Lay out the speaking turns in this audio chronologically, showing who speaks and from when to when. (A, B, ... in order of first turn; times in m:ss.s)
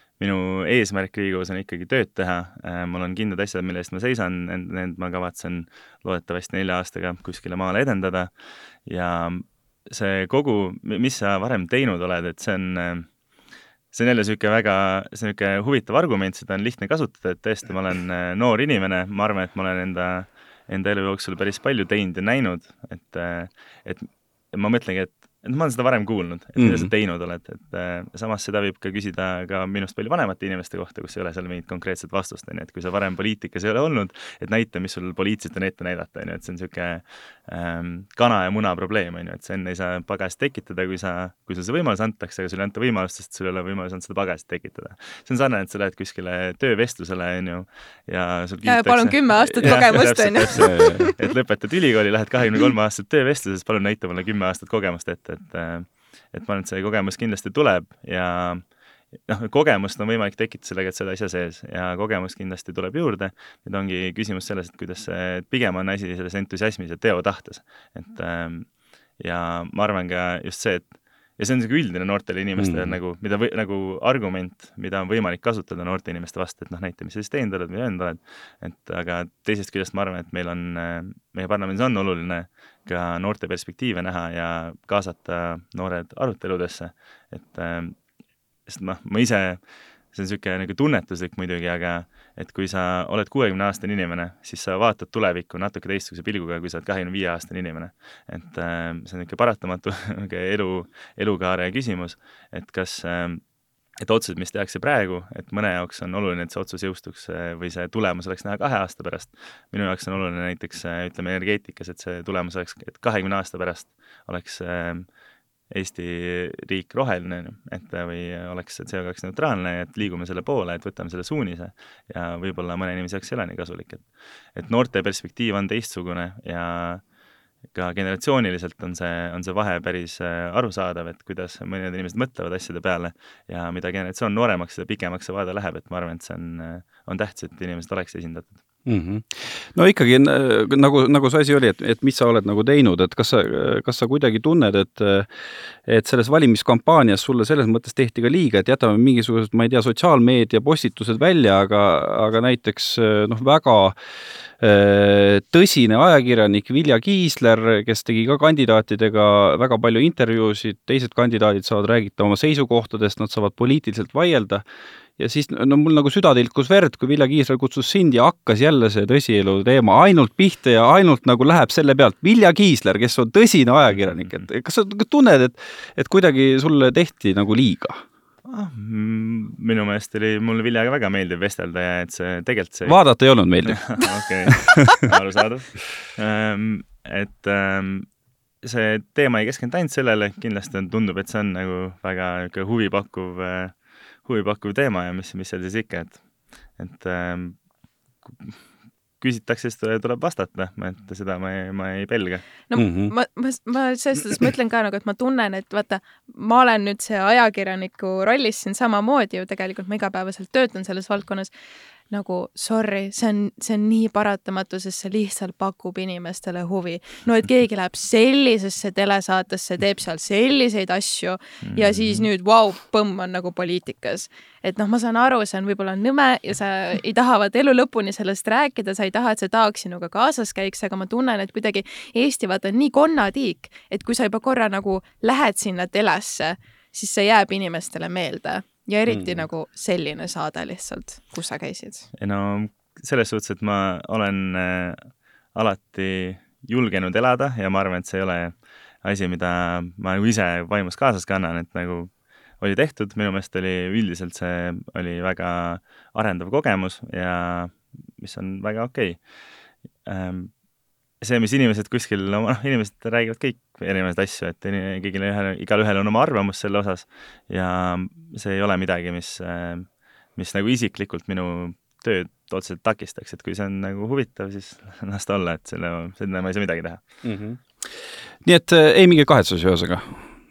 0:00.2-0:08.3 A
0:08.8-0:13.1 A
0:13.9-0:58.6 A
0:26.6-0:26.9 B
0:48.6-0:51.3 C
0:50.5-0:51.1 B
0:59.3-1:28.0 A
1:12.6-1:12.9 B
1:28.7-1:29.6 A
1:30.1-1:43.4 A
1:44.0-1:55.1 A
1:55.7-2:07.0 A
2:07.7-2:18.6 A
2:18.9-2:25.3 B
2:25.8-2:34.0 B
2:34.6-2:44.6 B
2:45.2-2:58.0 B
2:58.4-3:03.0 A
3:02.9-3:04.0 B
3:03.6-3:08.1 A
3:04.5-3:05.1 B
3:08.6-3:16.2 A
3:16.8-3:17.6 A
3:18.2-3:18.6 A
3:19.2-3:22.5 A
3:22.7-3:31.5 C
3:22.8-3:23.1 B
3:32.1-4:02.1 C
3:41.6-3:42.3 A
3:59.1-3:59.5 B
4:02.2-4:19.2 A
4:20.0-4:20.5 A
4:21.2-4:37.0 A
4:37.2-4:37.6 B
4:38.4-4:40.2 B